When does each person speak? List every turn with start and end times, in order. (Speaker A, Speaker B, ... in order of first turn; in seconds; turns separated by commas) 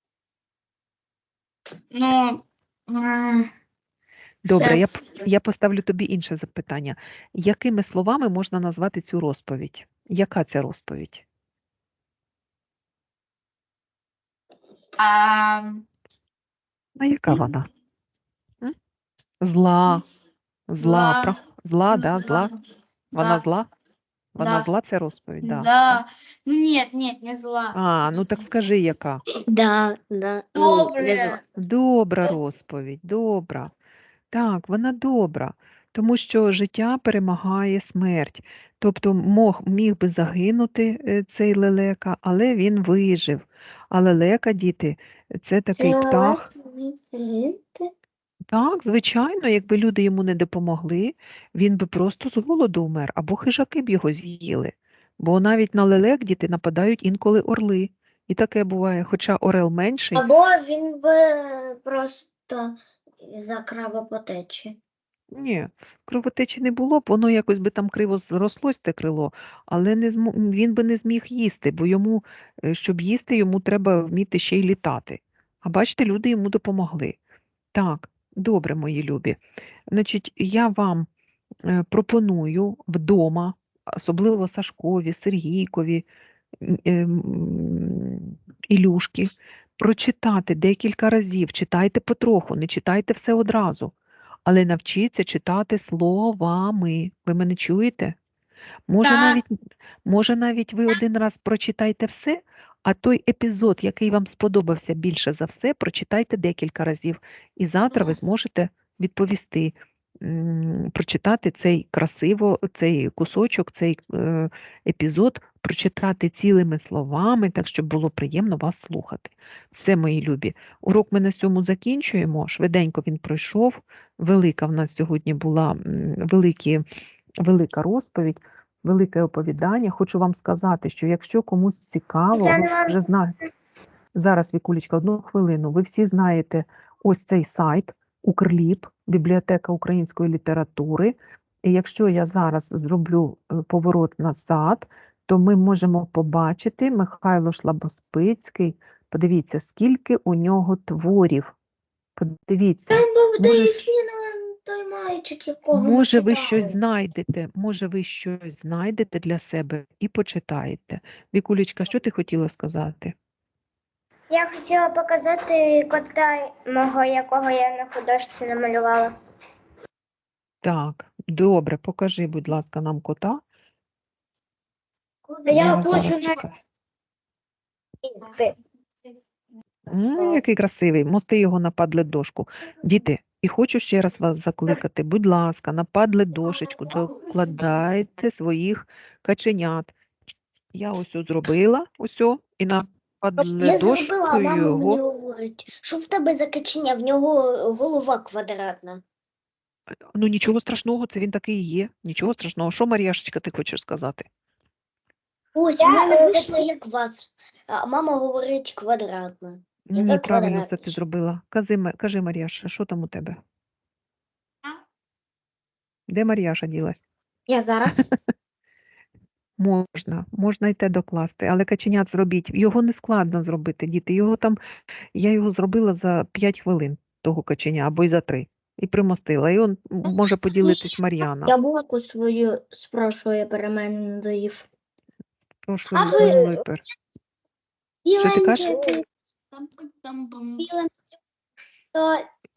Speaker A: 1.9-3.5, Speaker B: 4.4-11.2, Speaker A: 4.5-5.2, Speaker A: 15.0-15.8, Speaker B: 17.0-17.7, Speaker B: 19.4-20.1, Speaker B: 20.7-22.5, Speaker A: 20.8-22.5, Speaker B: 23.1-23.7, Speaker A: 23.1-23.4, Speaker B: 24.4-26.0, Speaker A: 24.4-24.7, Speaker A: 25.4-27.8, Speaker B: 27.7-29.2, Speaker C: 29.5-31.4, Speaker A: 30.6-31.4, Speaker B: 31.6-33.7, Speaker B: 34.3-46.5, Speaker D: 45.8-47.9, Speaker B: 48.5-60.3, Speaker D: 60.1-64.8, Speaker B: 65.3-77.2, Speaker B: 77.7-79.4, Speaker B: 79.9-81.1, Speaker B: 81.7-86.1, Speaker B: 86.6-93.9, Speaker B: 94.5-98.2, Speaker B: 98.9-99.5, Speaker B: 100.1-126.8, Speaker B: 127.4-133.3, Speaker E: 132.6-132.9, Speaker B: 134.2-151.5, Speaker B: 152.2-153.9, Speaker D: 152.9-156.8, Speaker B: 155.7-163.2, Speaker E: 164.3-169.1, Speaker B: 170.6-173.4, Speaker D: 175.3-175.9, Speaker B: 175.5-176.6, Speaker B: 179.9-189.9, Speaker B: 190.7-195.0, Speaker C: 193.6-199.0, Speaker B: 200.2-204.3, Speaker C: 205.6-211.0, Speaker E: 206.0-206.5, Speaker B: 209.9-213.4, Speaker B: 216.1-217.0, Speaker D: 217.5-218.1, Speaker B: 219.6-224.6, Speaker B: 225.2-231.6, Speaker D: 230.1-230.8, Speaker D: 231.5-234.7, Speaker B: 235.6-236.8, Speaker C: 236.0-236.6, Speaker C: 238.1-239.1, Speaker B: 238.2-238.8, Speaker A: 239.5-240.7, Speaker C: 240.6-240.9, Speaker C: 241.9-242.2